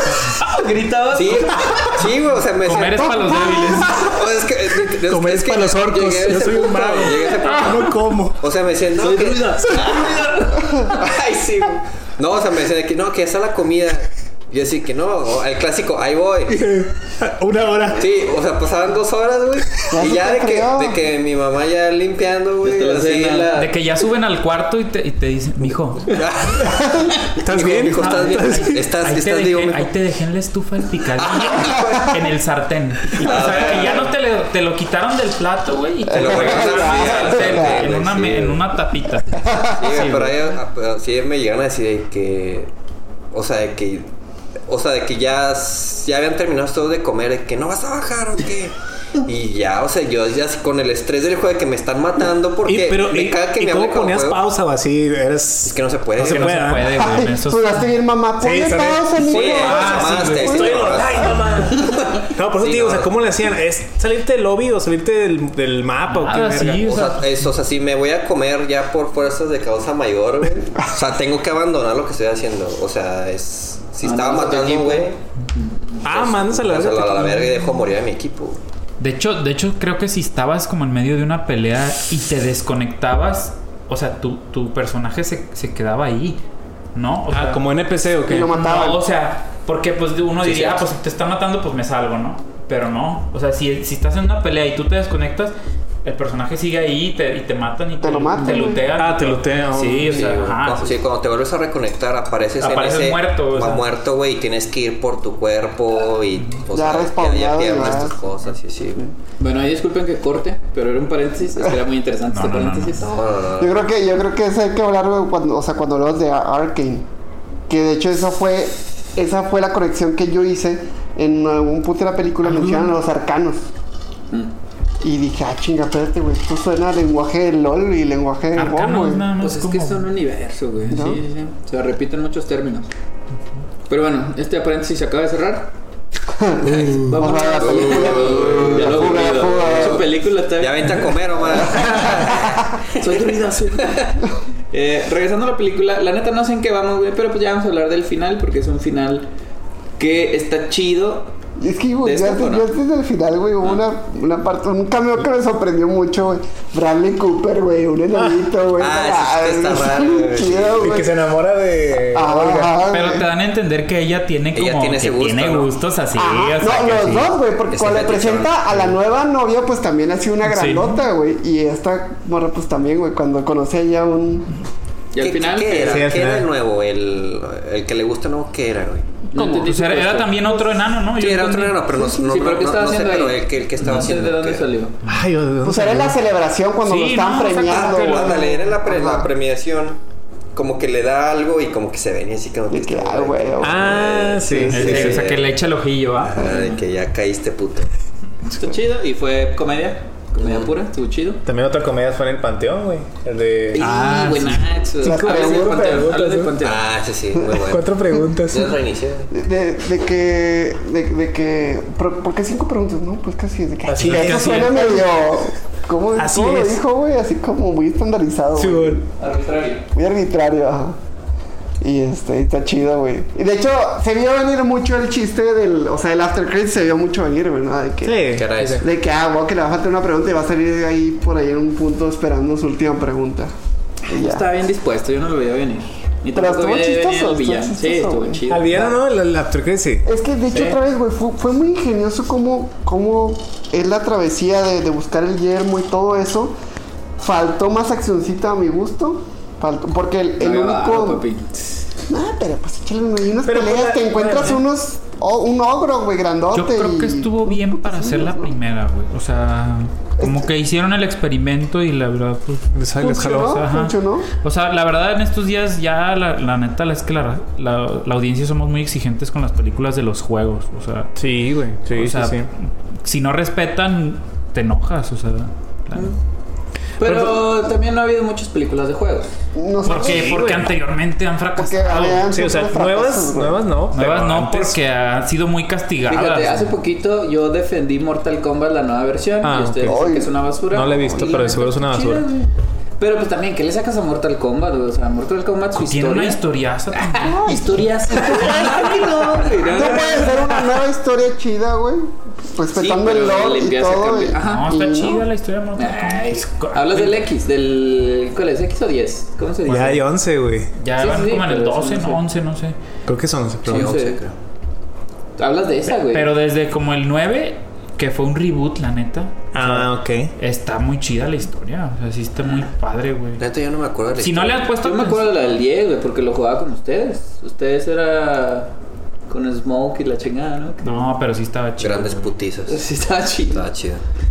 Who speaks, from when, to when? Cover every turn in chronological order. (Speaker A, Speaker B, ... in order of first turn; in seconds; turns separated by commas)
Speaker A: 0.4-2.0, Speaker B: 1.1-10.2, Speaker C: 2.6-4.0, Speaker D: 3.0-4.0, Speaker E: 5.0-8.4, Speaker A: 9.0-10.9, Speaker B: 10.8-16.6, Speaker E: 16.5-18.1, Speaker B: 17.9-23.7, Speaker D: 19.9-21.0, Speaker A: 22.6-23.6, Speaker C: 23.6-26.2, Speaker B: 26.1-29.9, Speaker E: 27.4-28.8, Speaker C: 27.9-40.4, Speaker B: 31.2-32.1, Speaker B: 33.1-34.1, Speaker D: 36.1-37.9, Speaker B: 36.1-38.6, Speaker D: 39.4-39.7, Speaker B: 39.7-42.7, Speaker B: 43.3-44.1, Speaker B: 44.7-54.4, Speaker E: 52.6-57.2, Speaker B: 55.6-56.8, Speaker C: 56.2-57.9, Speaker D: 56.9-61.3, Speaker E: 58.4-59.4, Speaker B: 59.2-63.1, Speaker C: 59.4-60.6, Speaker E: 60.4-66.9, Speaker C: 66.1-67.5, Speaker B: 66.8-75.2, Speaker A: 74.0-76.1, Speaker E: 76.0-77.5, Speaker B: 76.0-78.6, Speaker C: 79.0-86.4, Speaker C: 86.9-87.6, Speaker E: 87.3-88.6, Speaker D: 88.2-89.0, Speaker C: 88.5-95.5, Speaker C: 96.0-100.9, Speaker D: 98.0-98.8, Speaker E: 98.9-100.2, Speaker B: 100.0-109.1, Speaker C: 102.6-103.8, Speaker D: 106.7-108.2, Speaker A: 109.4-113.2, Speaker C: 112.3-113.1, Speaker B: 113.0-113.8, Speaker D: 113.6-117.0, Speaker D: 117.7-123.7, Speaker C: 122.4-122.9, Speaker D: 125.0-129.3, Speaker C: 128.6-130.1, Speaker A: 129.4-132.9, Speaker D: 130.9-131.2, Speaker A: 133.9-135.7, Speaker D: 136.4-140.1, Speaker A: 136.6-141.0, Speaker E: 136.9-137.1, Speaker B: 137.4-140.0, Speaker B: 140.6-143.1, Speaker A: 143.0-149.3, Speaker A: 150.0-151.3, Speaker D: 151.6-161.1, Speaker A: 152.0-152.7, Speaker B: 158.8-161.0, Speaker E: 160.8-162.7, Speaker D: 162.1-163.2, Speaker C: 162.9-167.3, Speaker B: 164.5-165.7, Speaker D: 166.2-174.5, Speaker B: 167.7-169.0, Speaker C: 170.4-171.0, Speaker A: 175.1-176.1, Speaker B: 175.2-179.1, Speaker E: 175.7-176.5, Speaker D: 179.3-179.7, Speaker A: 179.3-180.5, Speaker C: 179.5-181.8, Speaker B: 181.1-184.6, Speaker D: 181.9-182.2, Speaker A: 182.2-185.0, Speaker E: 185.0-186.1, Speaker D: 185.6-189.3, Speaker C: 186.8-188.7, Speaker B: 187.7-190.0, Speaker B: 190.5-195.6, Speaker D: 192.7-195.1, Speaker E: 193.6-195.2, Speaker C: 194.7-196.5, Speaker B: 196.2-197.9, Speaker A: 198.6-201.4, Speaker B: 200.4-200.7, Speaker E: 201.4-203.9, Speaker A: 203.7-206.9, Speaker C: 203.8-204.7, Speaker D: 205.0-206.1, Speaker E: 205.0-206.5, Speaker B: 206.6-207.9, Speaker E: 207.6-208.7, Speaker B: 208.5-209.3, Speaker D: 209.3-219.1, Speaker E: 213.9-215.2, Speaker E: 216.2-216.8, Speaker E: 218.6-219.0, Speaker A: 219.2-219.8, Speaker D: 219.9-221.0, Speaker D: 221.8-233.5, Speaker E: 228.0-228.8, Speaker B: 228.3-228.8, Speaker D: 234.1-234.4, Speaker A: 234.1-238.9, Speaker D: 236.3-238.4, Speaker E: 238.5-240.0, Speaker D: 240.0-246.5, Speaker A: 240.5-240.8, Speaker D: 247.2-251.2, Speaker A: 250.4-251.6, Speaker D: 252.1-258.5, Speaker E: 253.4-254.6, Speaker C: 256.5-271.1, Speaker D: 260.2-260.5, Speaker E: 262.7-263.6, Speaker D: 263.0-264.3, Speaker E: 271.1-272.5, Speaker C: 271.9-276.1, Speaker A: 277.0-279.3, Speaker E: 277.0-277.4, Speaker D: 279.5-280.6, Speaker C: 279.8-282.3, Speaker E: 279.9-280.7, Speaker D: 281.6-283.7, Speaker E: 282.3-284.8, Speaker C: 283.9-286.7, Speaker A: 286.1-296.4, Speaker E: 289.4-290.0, Speaker D: 289.8-290.3, Speaker E: 290.7-292.3, Speaker C: 295.7-297.6, Speaker A: 296.9-300.7, Speaker D: 297.4-305.2, Speaker A: 302.7-304.8, Speaker C: 304.4-307.2, Speaker A: 305.8-310.1, Speaker E: 309.6-310.7, Speaker C: 310.7-312.7, Speaker A: 310.9-312.2, Speaker E: 313.1-313.9, Speaker A: 313.6-314.2, Speaker B: 313.6-314.3, Speaker A: 315.4-316.3, Speaker C: 315.9-323.4, Speaker E: 319.5-320.3, Speaker B: 323.4-324.7, Speaker C: 324.2-325.3, Speaker A: 324.8-328.7, Speaker A: 329.3-331.1, Speaker C: 330.8-332.3, Speaker B: 331.8-332.8, Speaker A: 332.7-333.6, Speaker B: 333.5-334.0